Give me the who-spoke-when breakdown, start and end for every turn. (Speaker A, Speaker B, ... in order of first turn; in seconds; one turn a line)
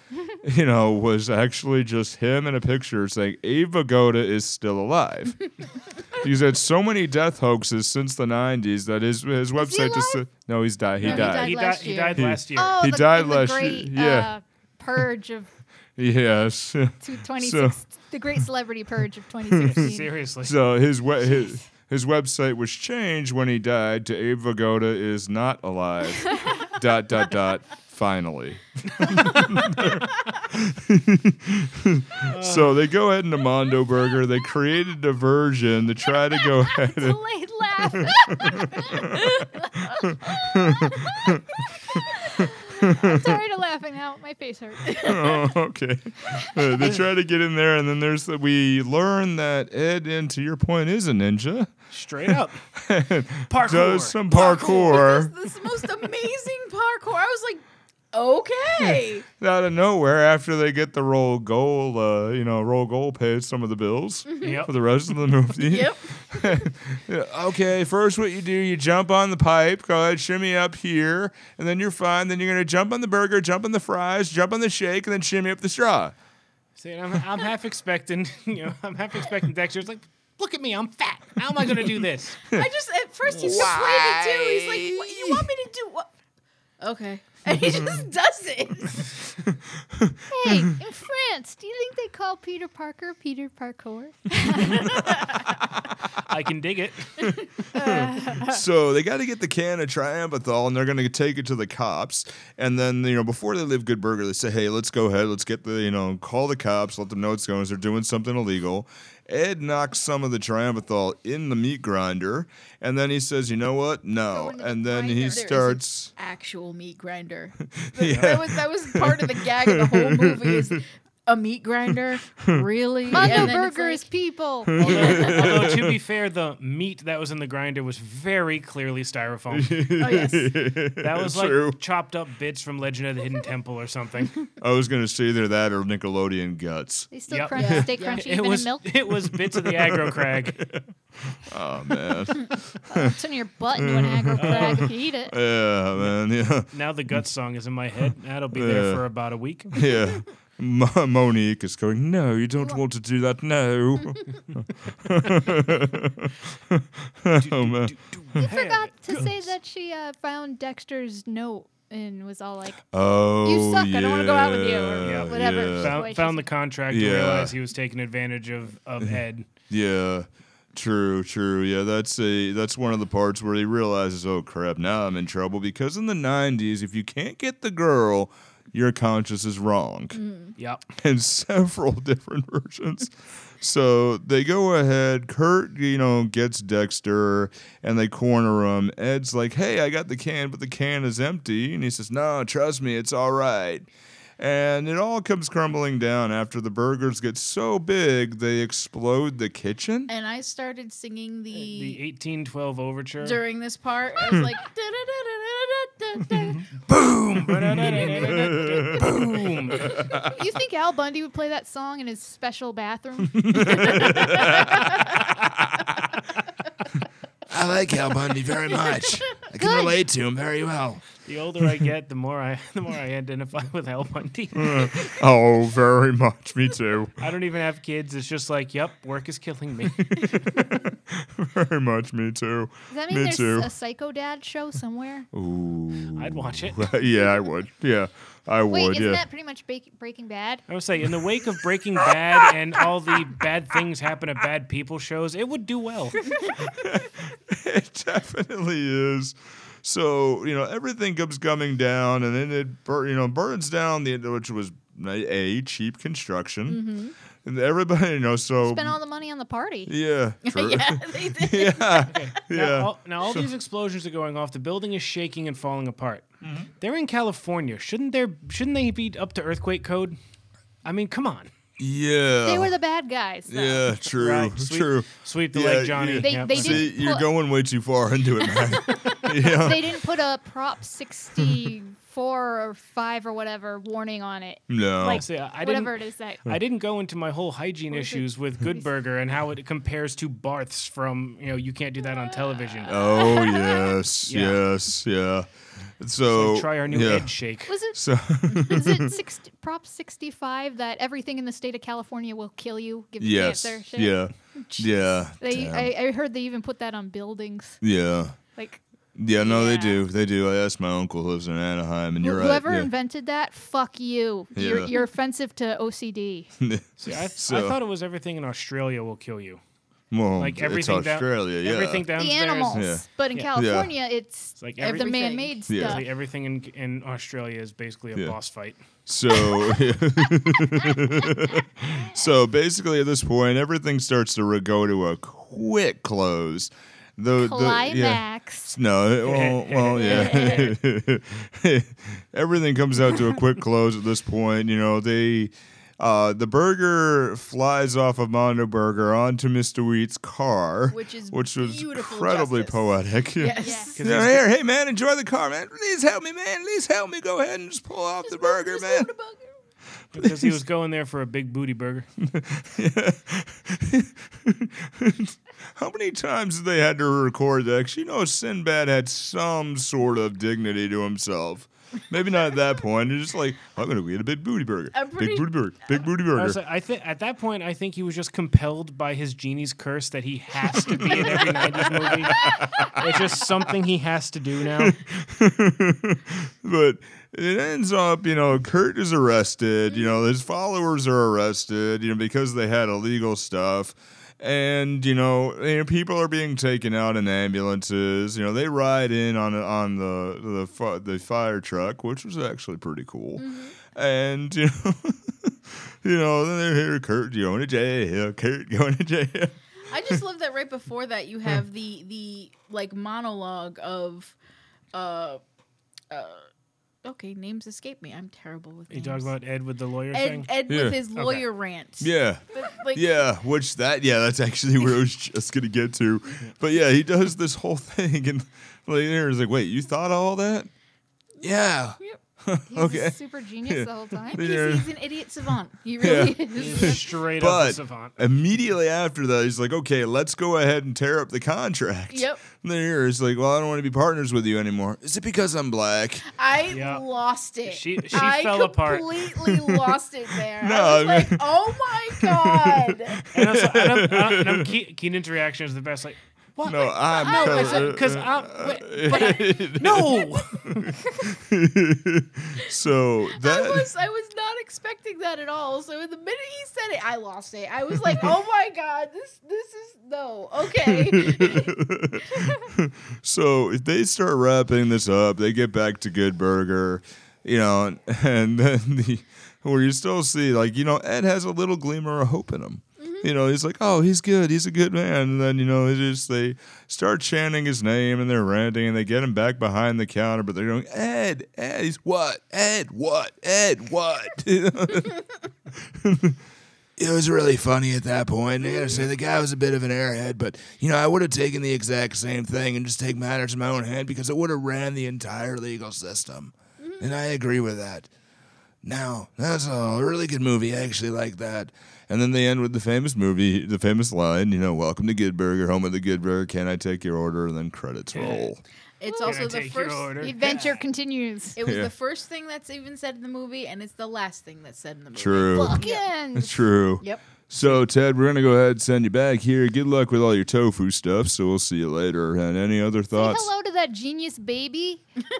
Speaker A: 0.4-5.3
Speaker A: 6.2-14.3
Speaker B: 9.6-10.2
Speaker C: 11.0-12.3
Speaker D: 11.0-12.8
Speaker B: 12.6-15.5
Speaker A: 16.0-17.8
Speaker B: 17.0-20.1
Speaker A: 19.5-37.2
Speaker D: 19.6-20.6
Speaker D: 32.2-32.8
Speaker B: 36.9-41.2
Speaker A: 38.0-39.4
Speaker A: 40.0-41.5
Speaker B: 42.1-45.4
Speaker A: 42.8-43.4
Speaker A: 45.0-51.7
Speaker B: 46.5-46.7
Speaker D: 51.9-52.7
Speaker A: 52.3-55.3
Speaker D: 53.5-54.2
Speaker C: 54.3-59.2
Speaker A: 58.8-76.1
Speaker C: 64.3-64.7
Speaker D: 64.4-64.7
Speaker C: 65.6-66.7
Speaker D: 76.8-82.4
Speaker C: 82.5-86.1
Speaker A: 83.4-85.5
Speaker C: 86.8-89.1
Speaker A: 89.9-90.7
Speaker B: 90.3-94.9
Speaker C: 95.0-95.4
Speaker D: 96.3-97.4
Speaker C: 97.8-98.6
Speaker A: 97.8-116.1
Speaker B: 114.3-115.5
Speaker C: 115.3-124.1
Speaker A: 117.6-120.8
Speaker A: 122.3-123.5
Speaker B: 123.1-125.1
Speaker A: 124.7-126.0
Speaker C: 124.8-125.5
Speaker D: 124.8-129.7
Speaker A: 129.5-131.8
Speaker C: 130.0-130.5
Speaker D: 131.0-134.4
Speaker A: 134.6-137.1
Speaker B: 137.1-138.9
Speaker D: 137.3-140.6
Speaker C: 137.5-138.2
Speaker A: 139.6-143.2
Speaker B: 142.9-145.4
Speaker A: 143.8-146.7
Speaker D: 144.4-144.9
Speaker D: 146.7-149.8
Speaker A: 148.5-149.0
Speaker A: 149.7-157.9
Speaker D: 157.4-159.3
Speaker B: 158.4-162.9
Speaker A: 162.9-166.1
Speaker B: 163.4-166.5
Speaker D: 165.0-169.5
Speaker A: 166.9-167.5
Speaker A: 169.7-180.2
Speaker C: 180.1-180.5
Speaker D: 180.6-180.9
Speaker A: 181.0-193.9
Speaker A: 194.4-200.1
Speaker C: 200.1-202.0
Speaker D: 201.5-203.4
Speaker C: 203.2-206.7
Speaker D: 206.9-210.0
Speaker A: 207.6-209.1
Speaker C: 208.0-208.3
Speaker A: 209.8-210.3
Speaker B: 210.2-214.5
Speaker A: 213.3-214.9
Speaker E: 217.5-221.0
Speaker B: 219.6-220.0
Speaker D: 221.2-225.2
Speaker A: 224.6-227.1
Speaker D: 227.2-230.4
Speaker A: 230.1-233.7
Speaker B: 232.9-235.3
Speaker A: 235.3-239.2
Speaker D: 236.2-236.9
Speaker B: 238.7-240.6
Speaker D: 240.7-246.3
Speaker A: 246.6-256.8
Speaker C: 256.7-257.1
Speaker A: 257.4-259.0
Speaker B: 258.6-259.9
Speaker A: 259.9-263.5
Speaker C: 260.4-262.1
Speaker D: 262.1-266.3
Speaker D: 266.8-270.2
Speaker D: 270.8-271.5
Speaker A: 271.8-272.7
Speaker B: 272.4-273.9
Speaker A: 273.5-279.9
Speaker D: 274.1-276.9
Speaker B: 276.2-277.3
Speaker B: 279.4-286.5
Speaker A: 284.7-285.2
Speaker D: 285.1-293.0
Speaker B: 287.9-288.2
Speaker B: 292.0-294.0
Speaker A: 292.9-295.5
Speaker D: 294.3-294.6
Speaker A: 296.0-297.3
Speaker D: 296.3-297.8
Speaker B: 297.7-307.8
Speaker A: 297.9-299.1
Speaker A: 303.2-305.9
Speaker A: 307.8-308.4
Speaker B: 308.5-308.8
Speaker A: 309.2-312.9
Speaker B: 309.4-310.1
Speaker B: 312.2-316.5
Speaker A: 314.6-314.9
Speaker A: 316.6-317.8
Speaker D: 317.0-319.6
Speaker A: 320.1-322.1
Speaker D: 320.4-323.5
Speaker B: 322.2-326.0
Speaker A: 322.7-323.9
Speaker D: 324.6-325.1
Speaker C: 324.8-326.0
Speaker A: 325.7-326.0
Speaker D: 325.7-328.8
Speaker A: 329.1-359.1
Speaker B: 337.4-338.8
Speaker D: 339.2-340.7
Speaker B: 340.0-340.7
Speaker C: 340.0-340.7
Speaker C: 350.9-354.0
Speaker B: 353.6-354.0
Speaker D: 354.0-354.4
Speaker C: 358.2-359.5
Speaker D: 360.1-362.1
Speaker A: 360.2-360.6
Speaker A: 362.2-376.6
Speaker C: 374.9-375.5
Speaker D: 376.3-385.0
Speaker A: 380.9-381.4
Speaker A: 382.3-383.1
Speaker A: 384.8-409.6
Speaker C: 403.4-403.8
Speaker C: 409.9-414.4
Speaker C: 414.9-415.4
Speaker C: 416.1-416.5
Speaker C: 417.0-419.3
Speaker D: 418.9-420.6
Speaker C: 420.1-423.2
Speaker A: 420.7-421.0
Speaker D: 421.1-421.5
Speaker A: 422.0-430.7
Speaker E: 431.4-431.9
Speaker A: 432.5-433.2
Speaker B: 432.7-434.4
Speaker A: 433.7-434.9
Speaker C: 434.3-437.1
Speaker A: 436.0-446.2
Speaker D: 436.5-438.2
Speaker C: 442.1-442.5
Speaker C: 446.3-453.2
Speaker D: 446.7-447.1
Speaker D: 447.6-449.2
Speaker A: 450.5-454.7
Speaker D: 453.3-460.9
Speaker A: 456.6-463.9
Speaker B: 457.2-457.9
Speaker C: 457.3-457.8
Speaker C: 459.1-459.5
Speaker C: 463.4-471.8
Speaker A: 470.8-495.2
Speaker C: 483.0-483.3
Speaker A: 496.0-496.4
Speaker E: 497.0-508.1
Speaker A: 498.6-499.0
Speaker C: 506.8-507.1
Speaker E: 508.8-511.7
Speaker A: 512.1-518.6
Speaker D: 518.1-518.5
Speaker C: 519.0-520.6
Speaker B: 519.0-519.5
Speaker D: 519.2-520.8
Speaker B: 520.2-521.6
Speaker C: 521.6-526.1
Speaker A: 521.6-521.9
Speaker A: 525.1-525.8
Speaker B: 525.5-526.6
Speaker A: 526.4-533.5
Speaker C: 527.0-527.3
Speaker B: 533.1-535.0